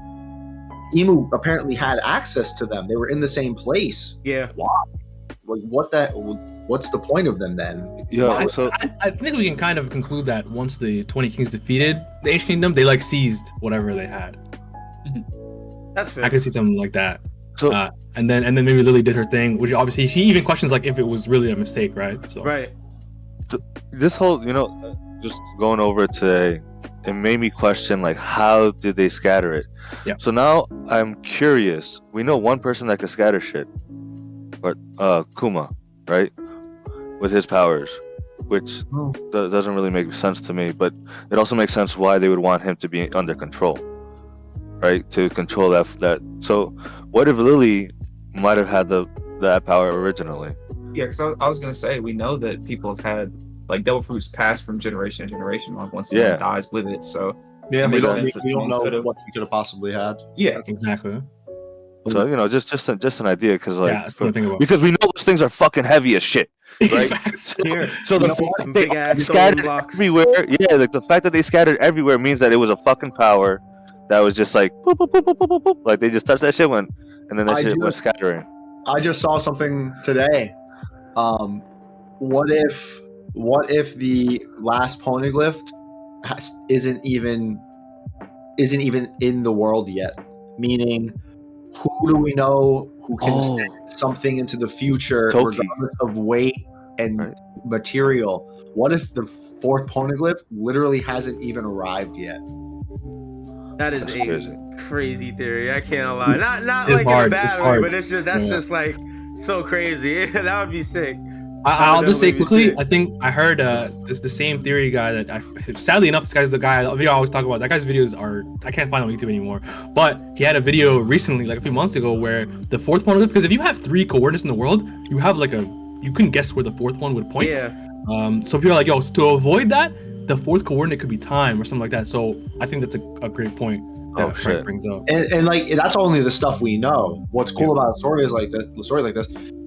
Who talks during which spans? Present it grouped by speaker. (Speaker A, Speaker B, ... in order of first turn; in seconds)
Speaker A: 0.9-4.9, 5.5-8.6, 38.9-39.2, 57.7-60.6, 67.5-69.3, 77.5-78.0, 78.9-80.5, 81.2-81.7, 82.2-87.6, 88.6-91.2, 91.7-102.4, 135.1-139.3
Speaker B: 4.2-4.5, 15.9-16.4, 22.4-22.7, 68.6-70.1, 103.8-112.8, 127.4-127.8
Speaker C: 8.1-8.8, 23.5-33.7, 34.6-36.3, 37.2-43.8, 44.8-50.6, 56.1-56.4, 57.8-58.3, 62.1-67.2, 68.0-78.5, 93.2-93.7, 95.3-95.7, 104.0-104.6, 134.2-134.7
Speaker D: 8.3-14.4, 16.2-22.5, 60.6-61.3, 63.8-64.7, 66.8-68.1, 106.8-108.6, 111.7-135.1
Speaker E: 50.9-59.1, 60.4-60.6